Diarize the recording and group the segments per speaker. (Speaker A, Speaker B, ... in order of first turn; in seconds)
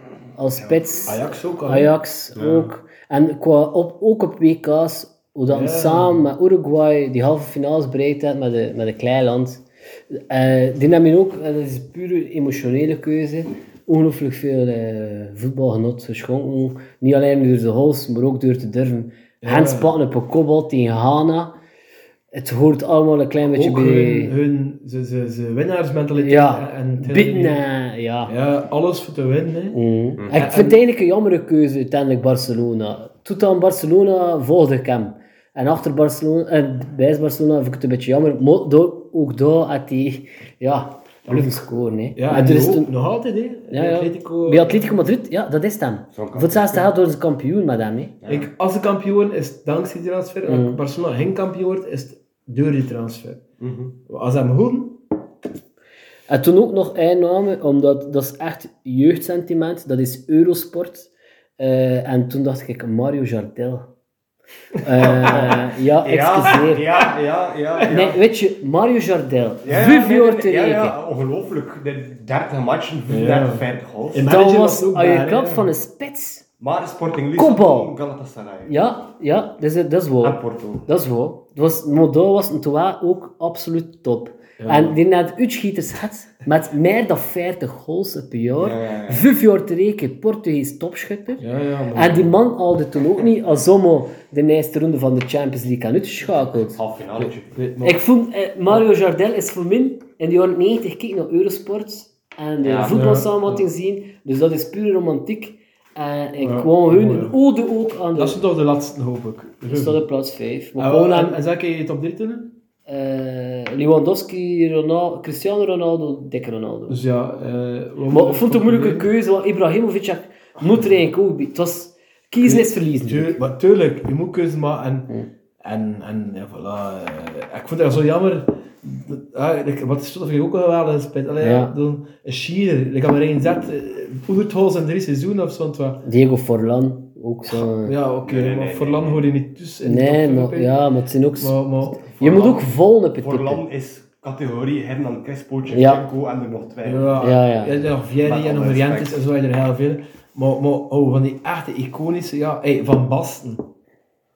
Speaker A: 0.3-21.6, 22.3-24.3, 26.2-28.3, 29.7-42.9, 43.7-48.2, 50.5-50.8, 56.3-63.9, 64.8-66.8, 67.8-71.0, 74.2-76.5, 77.3-77.9, 78.7-91.4, 91.9-96.8, 97.8-108.4, 109.7-111.3, 112.9-117.0, 118.1-123.4, 131.4-131.7, 136.0-137.9, 139.8-143.6, 145.7-146.1, 147.2-147.9
Speaker B: 1.1-1.9, 5.5-6.3, 19.4-20.0, 23.4-27.6, 28.2-29.8, 30.3-30.8, 41.3-41.5, 42.1-45.0, 48.3-53.4, 54.1-55.1, 65.0-65.6, 73.1-75.7, 84.6-85.0, 91.4-92.4, 97.2-98.0, 102.8-103.7, 106.4-107.4, 108.1-110.0, 110.8-112.6, 116.9-119.1, 122.4-136.0, 137.4-140.8, 141.4-142.6, 146.8-153.7
Speaker C: 2.3-2.7, 30.2-30.4, 46.1-46.9, 48.2-48.5, 53.6-54.0, 65.0-68.2, 69.6-74.3, 76.6-78.7, 80.2-80.9, 88.6-89.3, 96.7-97.5, 102.6-102.9, 138.2-139.3, 143.2-147.2, 148.2-149.2